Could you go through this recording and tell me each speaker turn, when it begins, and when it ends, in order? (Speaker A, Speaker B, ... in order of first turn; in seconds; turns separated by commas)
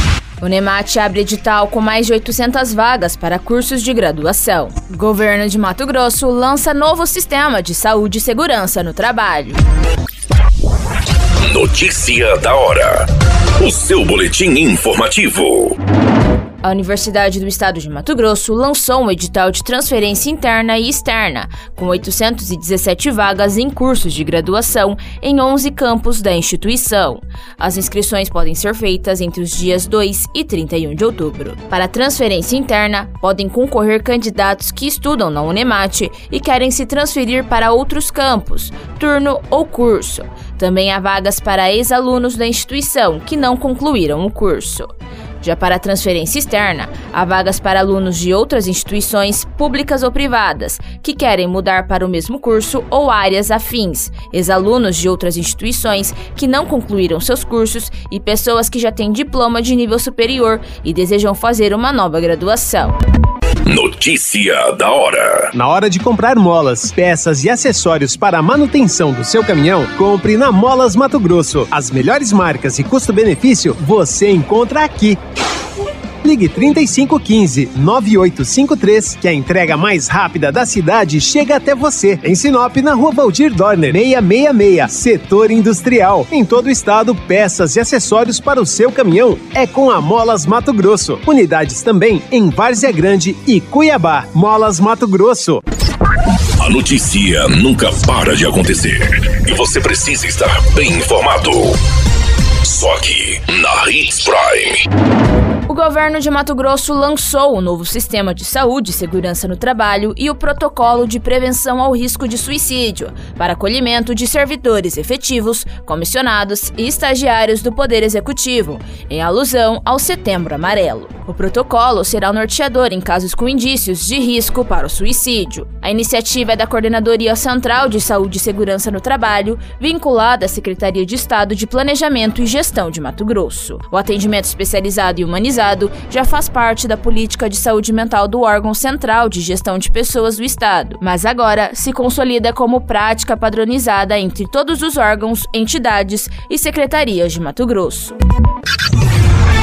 Speaker A: 0.4-9.6, Speaker B: 11.4-15.8, Speaker A: 16.6-63.0, Speaker B: 63.6-65.5, Speaker C: 65.5-75.2, Speaker C: 76.2-95.6, Speaker B: 96.6-101.8, Speaker B: 102.6-104.8, Speaker A: 105.7-148.2